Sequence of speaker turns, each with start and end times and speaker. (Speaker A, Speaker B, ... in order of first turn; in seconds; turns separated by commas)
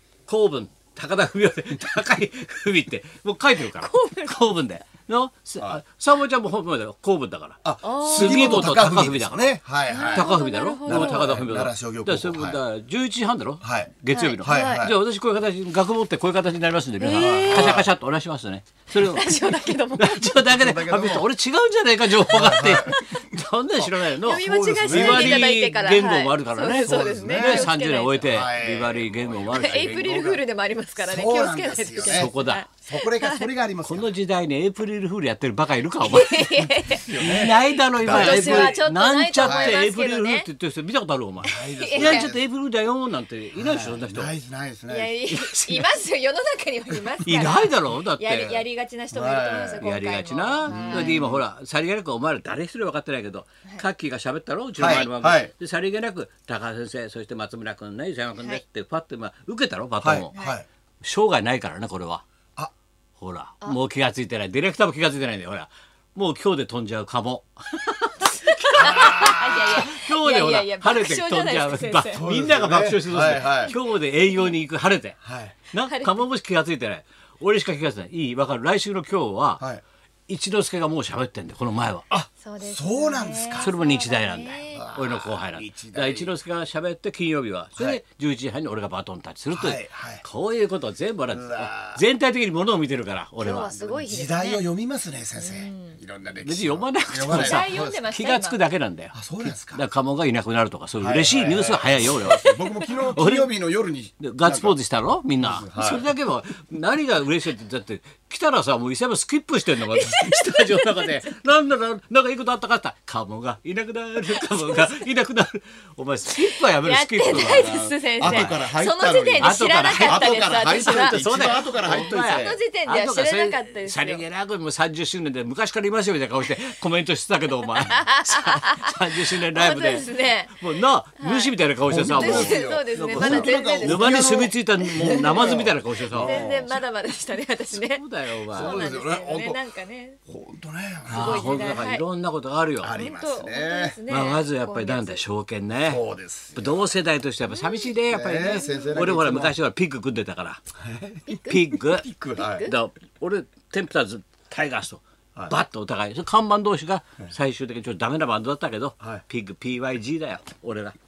Speaker A: 0.3-9.6, Speaker B: 3.6-4.5, Speaker C: 7.6-12.6, Speaker B: 7.8-8.7, Speaker B: 9.9-11.3, Speaker A: 10.1-29.9, Speaker C: 13.6-15.0, Speaker B: 14.1-14.9, Speaker B: 17.0-17.8, Speaker C: 17.1-17.9, Speaker B: 18.9-20.2, Speaker C: 20.4-21.3, Speaker C: 22.3-25.5, Speaker B: 22.8-23.2, Speaker B: 24.2-28.3, Speaker C: 26.8-27.7, Speaker C: 28.2-30.4, Speaker B: 29.5-33.5, Speaker C: 31.0-34.1, Speaker A: 32.0-32.6, Speaker A: 33.8-44.3, Speaker B: 36.0-37.2, Speaker C: 36.9-38.8, Speaker B: 38.1-40.5, Speaker C: 39.4-39.8, Speaker B: 41.5-42.3, Speaker C: 41.5-42.4, Speaker C: 43.5-45.1, Speaker B: 44.9-51.2, Speaker A: 45.3-45.9, Speaker A: 47.2-48.6, Speaker C: 49.1-49.8, Speaker A: 49.8-60.3, Speaker C: 50.7-51.4, Speaker C: 54.8-55.5, Speaker C: 60.0-60.6, Speaker A: 61.0-62.2, Speaker A: 63.2-75.2, Speaker B: 68.3-72.2, Speaker C: 68.8-69.9, Speaker C: 72.1-73.7, Speaker B: 73.5-74.5, Speaker C: 75.2-75.5, Speaker A: 75.7-79.6, Speaker B: 75.8-76.2, Speaker A: 80.3-82.1, Speaker C: 82.1-83.7, Speaker B: 82.4-84.9, Speaker A: 83.6-93.8, Speaker C: 84.7-86.3, Speaker C: 87.8-88.0, Speaker C: 89.5-90.2, Speaker C: 91.3-92.0, Speaker B: 93.4-94.7, Speaker C: 93.8-98.0, Speaker B: 95.3-96.0, Speaker A: 96.4-103.5, Speaker B: 97.3-98.6, Speaker C: 99.1-99.8, Speaker C: 101.0-104.8, Speaker A: 104.2-117.7, Speaker C: 105.4-106.1, Speaker B: 109.8-111.3, Speaker B: 114.3-114.9, Speaker B: 116.4-124.2, Speaker C: 117.2-122.6, Speaker A: 118.2-118.6, Speaker A: 119.4-136.8, Speaker B: 127.8-131.6, Speaker C: 131.8-136.8, Speaker B: 132.1-135.6, Speaker B: 136.1-140.2, Speaker A: 137.7-138.8, Speaker C: 138.5-139.6, Speaker C: 140.3-141.8, Speaker B: 141.1-142.0, Speaker A: 141.1-142.9, Speaker C: 142.8-144.0, Speaker B: 142.9-145.2, Speaker A: 144.1-146.0, Speaker C: 145.8-146.9, Speaker A: 146.6-150.6, Speaker B: 147.5-148.9, Speaker C: 148.1-149.6, Speaker C: 150.8-152.7, Speaker B: 151.3-151.7, Speaker A: 151.5-152.1, Speaker B: 152.3-152.7, Speaker A: 152.6-160.9